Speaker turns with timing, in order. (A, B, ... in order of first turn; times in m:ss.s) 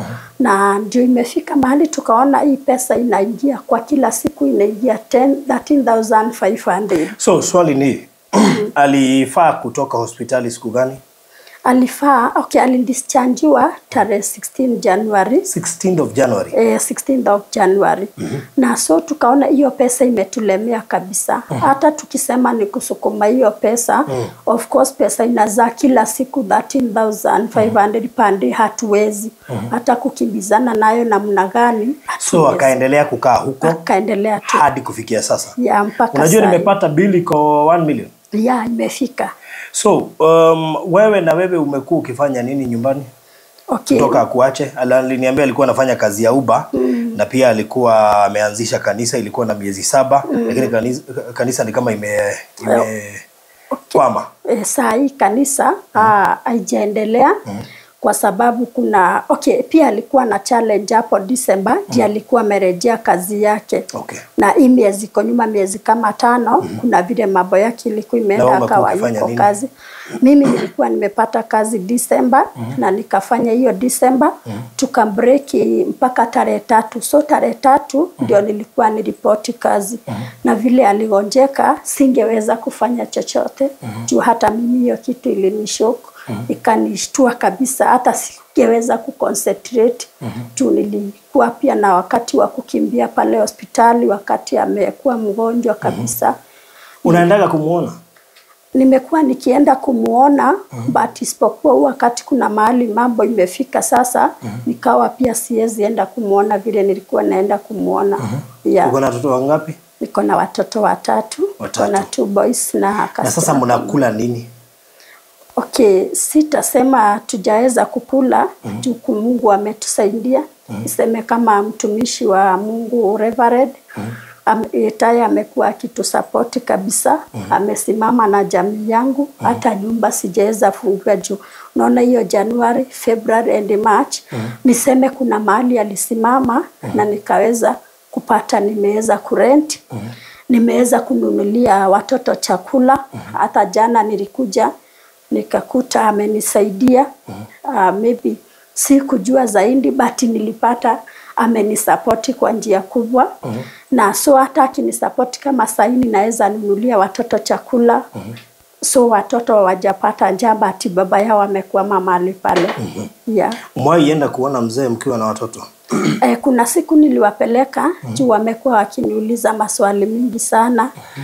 0:00.4-0:07.1 A
0:07.1-0:11.0 B
0:11.7-0:15.5 A
0:15.5-0:16.6 B
0:16.5-0:32.8 A
0:32.2-0:33.8 B
0:33.6-0:34.6 A
0:34.4-0:35.6 B
0:35.6-0:36.7 A
0:36.1-0:38.1 B
0:38.3-0:39.3 A
0:39.7-0:43.1 B
0:43.7-0:44.2 A
0:43.9-0:53.2 B
0:46.8-0:47.2 A
0:50.3-0:50.7 A
0:53.8-0:57.4 A
0:53.9-0:54.3 B
0:58.0-1:09.7 A
1:03.9-1:04.2 B
1:08.4-1:09.5 B
1:10.2-1:36.4 A
1:37.0-1:38.0 B
1:38.8-1:48.9 A
1:48.8-1:49.8 B
1:50.0-1:53.9 A
1:51.6-1:52.1 B
1:53.2-1:54.5 B
1:55.6-2:03.8 A
2:04.5-2:19.8 A
2:20.5-2:24.7 A
2:25.3-2:27.1 A
2:27.7-2:33.3 A
2:33.9-2:38.0 A
2:38.8-2:43.6 A
2:43.7-2:46.0 B
2:46.2-2:50.9 A